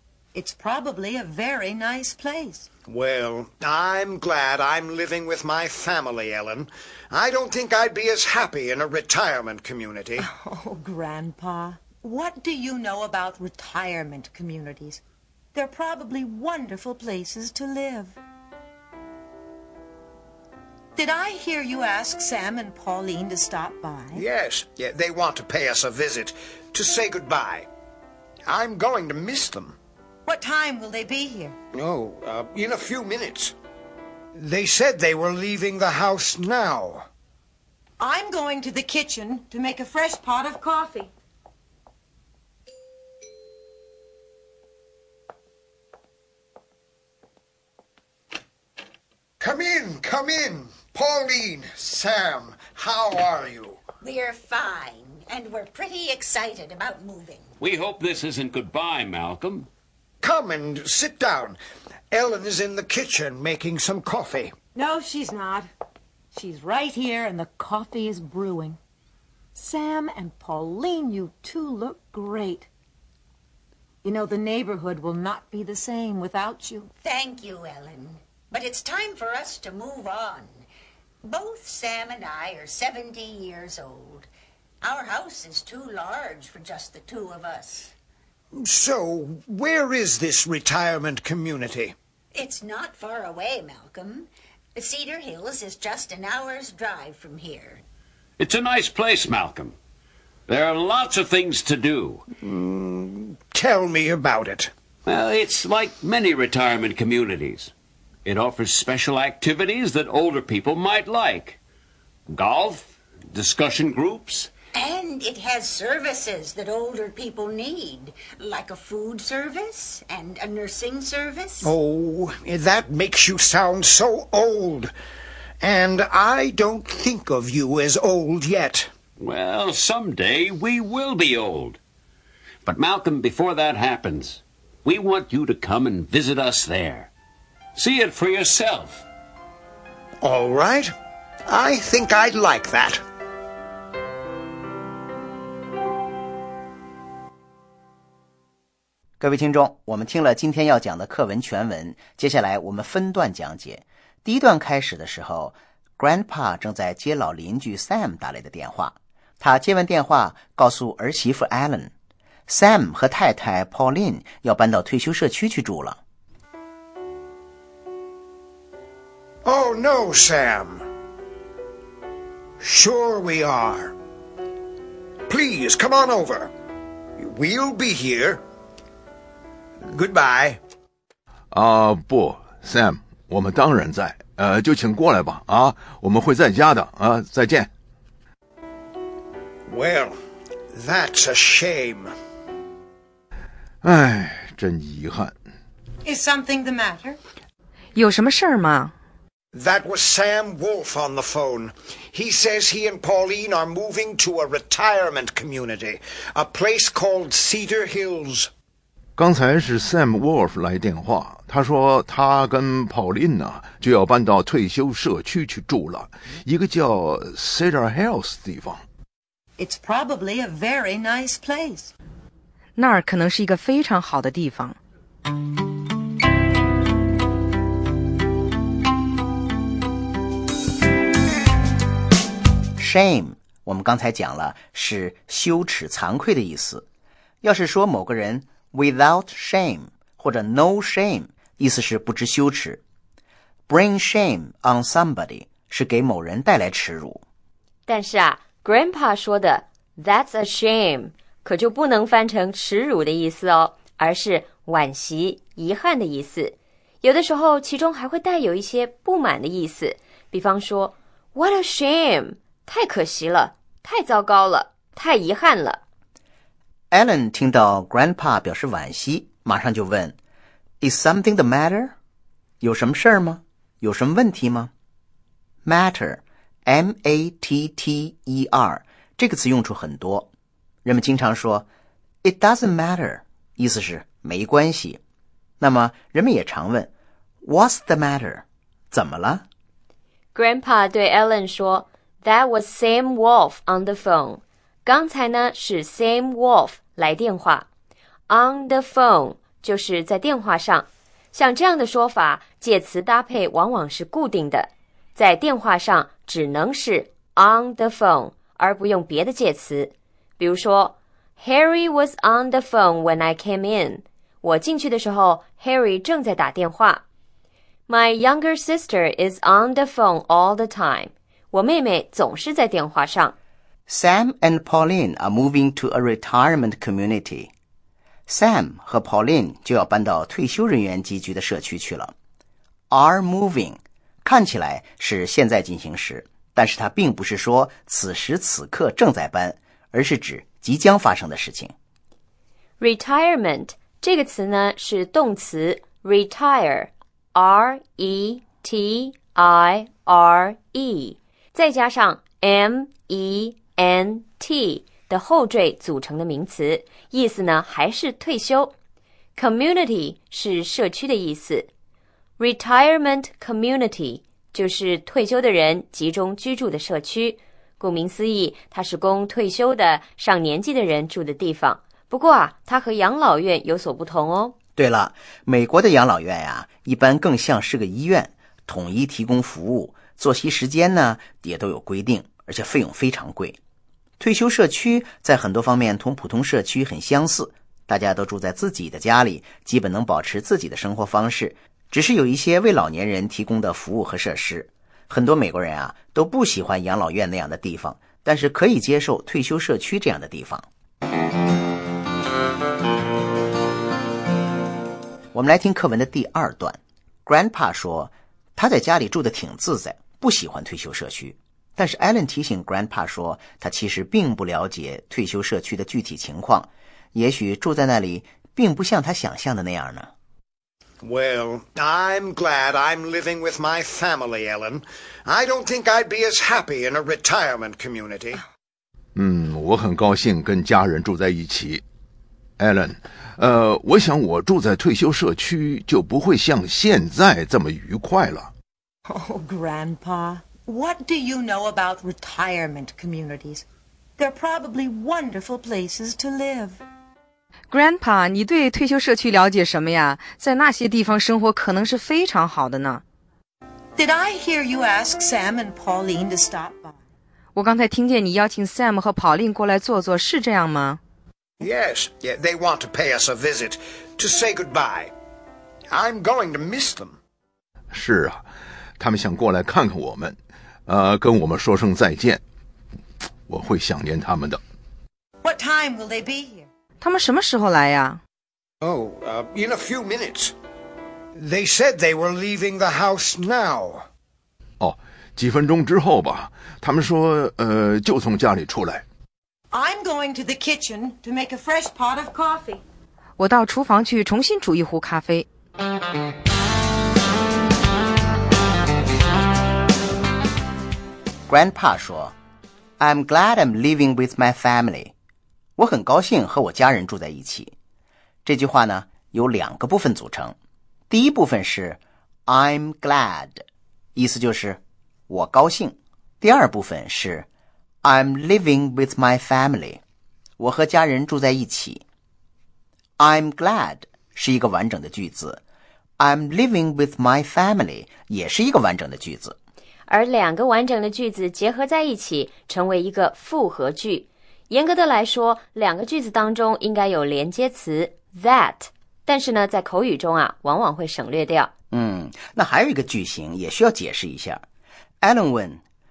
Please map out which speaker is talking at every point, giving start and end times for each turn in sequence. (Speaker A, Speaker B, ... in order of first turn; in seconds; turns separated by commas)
Speaker A: 0.3-2.7, Speaker B: 2.9-10.3, Speaker A: 10.2-15.0, Speaker A: 15.5-18.1, Speaker A: 20.9-24.2, Speaker B: 24.1-27.7, Speaker B: 28.5-29.8, Speaker A: 30.2-31.6, Speaker B: 31.7-33.5, Speaker B: 34.4-37.1, Speaker A: 38.0-41.1, Speaker B: 49.4-53.8, Speaker C: 54.0-57.5, Speaker D: 57.6-59.7, Speaker B: 60.2-61.6, Speaker B: 62.1-64.5, Speaker A: 64.7-65.7, Speaker A: 66.3-68.8, Speaker A: 69.5-72.7, Speaker A: 74.0-76.9, Speaker C: 77.0-80.6, Speaker C: 81.2-84.3, Speaker C: 84.8-87.9, Speaker B: 88.5-91.9, Speaker C: 92.3-97.8, Speaker D: 98.4-99.7, Speaker D: 100.5-102.2, Speaker B: 102.4-104.7, Speaker D: 105.0-107.7, Speaker D: 108.2-111.6, Speaker D: 112.3-114.5, Speaker C: 114.7-121.7, Speaker B: 121.6-124.9, Speaker B: 125.6-128.9, Speaker D: 129.2-131.8, Speaker D: 132.6-137.1, Speaker D: 137.8-139.0, Speaker B: 140.2-140.9, Speaker B: 141.5-143.0, Speaker E: 149.2-161.9, Speaker E: 162.5-166.0, Speaker B: 169.4-170.8, Speaker B: 172.6-173.9, Speaker B: 175.3-176.5, Speaker B: 177.2-178.4, Speaker B: 179.8-180.6, Speaker F: 181.5-187.7, Speaker B: 189.7-190.2, Speaker B: 190.7-192.1, Speaker F: 193.8-195.4, Speaker A: 196.0-197.2, Speaker G: 197.9-198.9, Speaker B: 199.5-208.5, Speaker F: 209.2-218.8, Speaker A: 219.6-221.9, Speaker G: 222.8-224.8, Speaker E: 232.8-236.8, Speaker E: 237.4-242.8, Speaker E: 243.7-247.2, Speaker H: 247.9-265.8, Speaker E: 266.9-270.2, Speaker E: 270.8-271.9, Speaker E: 272.6-274.7, Speaker E: 275.6-280.3, Speaker E: 280.8-281.7, Speaker E: 282.2-285.0, Speaker E: 285.6-286.9, Speaker E: 287.4-289.4, Speaker H: 290.3-297.7, Speaker H: 298.3-317.0, Speaker H: 317.9-323.3, Speaker E: 323.9-327.5, Speaker E: 328.3-332.1, Speaker E: 332.9-341.7, Speaker H: 342.8-358.7, Speaker H: 359.4-361.7, Speaker H: 362.4-374.5, Speaker E: 374.8-383.6, Speaker E: 384.2-400.7, Speaker E: 405.3-420.1, Speaker B: 421.0-428.4, Speaker F: 429.1-431.8, Speaker F: 432.6-438.5, Speaker A: 439.1-443.6, Speaker A: 444.2-446.8, Speaker G: 447.7-453.0, Speaker A: 453.9-457.0, Speaker G: 457.5-461.0, Speaker B: 461.6-465.1, Speaker B: 465.9-467.2, Speaker F: 467.9-468.5, Speaker F: 469.0-472.4, Speaker F: 473.5-474.6, Speaker A: 475.4-476.7, Speaker G: 477.0-478.2, Speaker B: 478.8-480.5, Speaker B: 481.4-484.1, Speaker F: 484.8-489.0, Speaker A: 489.7-492.8, Speaker G: 493.4-495.4, Speaker E: 501.5-502.3, Speaker E: 503.0-505.1, Speaker E: 505.8-507.7, Speaker E: 508.4-510.6, Speaker E: 511.1-517.5, Speaker E: 518.0-520.0, Speaker E: 520.6-522.0, Speaker E: 523.2-525.6, Speaker E: 526.2-529.6, Speaker H: 530.1-541.7, Speaker E: 541.9-544.6, Speaker E: 545.2-545.8